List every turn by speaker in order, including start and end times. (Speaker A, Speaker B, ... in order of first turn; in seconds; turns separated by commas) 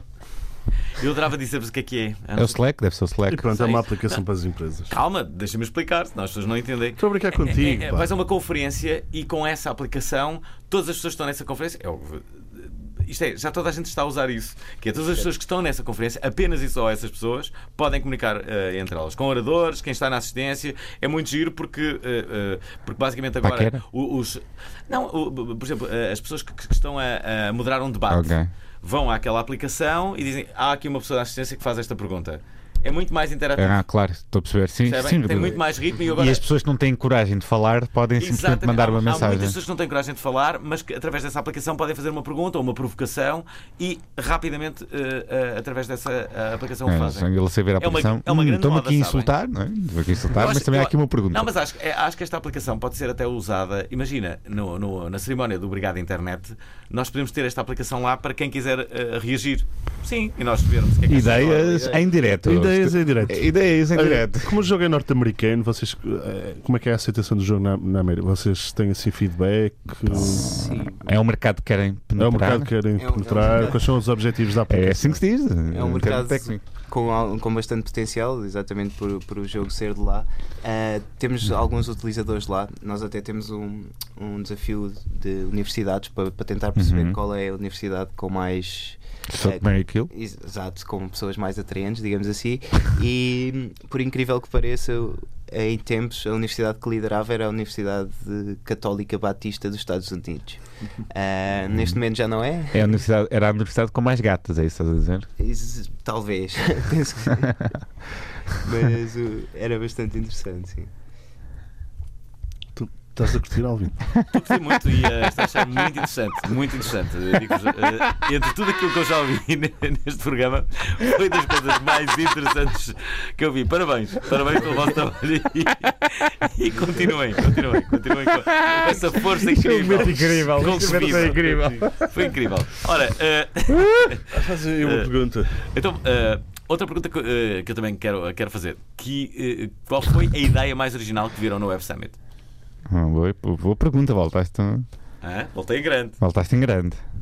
Speaker A: 0.9-2.6, Speaker B: 2.4-3.5, Speaker C: 3.3-4.9, Speaker A: 3.5-4.2, Speaker A: 4.9-33.8, Speaker C: 7.0-8.1, Speaker B: 23.4-23.8, Speaker B: 28.1-28.5, Speaker B: 33.5-39.6, Speaker A: 34.8-36.4, Speaker A: 38.2-49.3, Speaker B: 46.9-51.5, Speaker A: 50.3-62.0, Speaker B: 61.1-64.6, Speaker D: 61.6-62.1, Speaker C: 62.4-70.6, Speaker B: 70.1-72.7, Speaker D: 70.4-71.2, Speaker C: 72.2-75.2, Speaker D: 73.0-73.9, Speaker B: 74.7-76.6, Speaker D: 75.7-103.0, Speaker B: 86.8-87.2, Speaker B: 89.3-90.1, Speaker B: 102.7-105.3, Speaker D: 105.4-107.6, Speaker D: 108.6-110.9, Speaker C: 112.8-114.0, Speaker A: 114.3-142.2, Speaker B: 127.4-132.3, Speaker C: 130.7-131.2, Speaker B: 133.7-134.1, Speaker C: 134.3-135.5, Speaker B: 142.9-144.9, Speaker A: 145.2-146.2, Speaker B: 146.2-147.0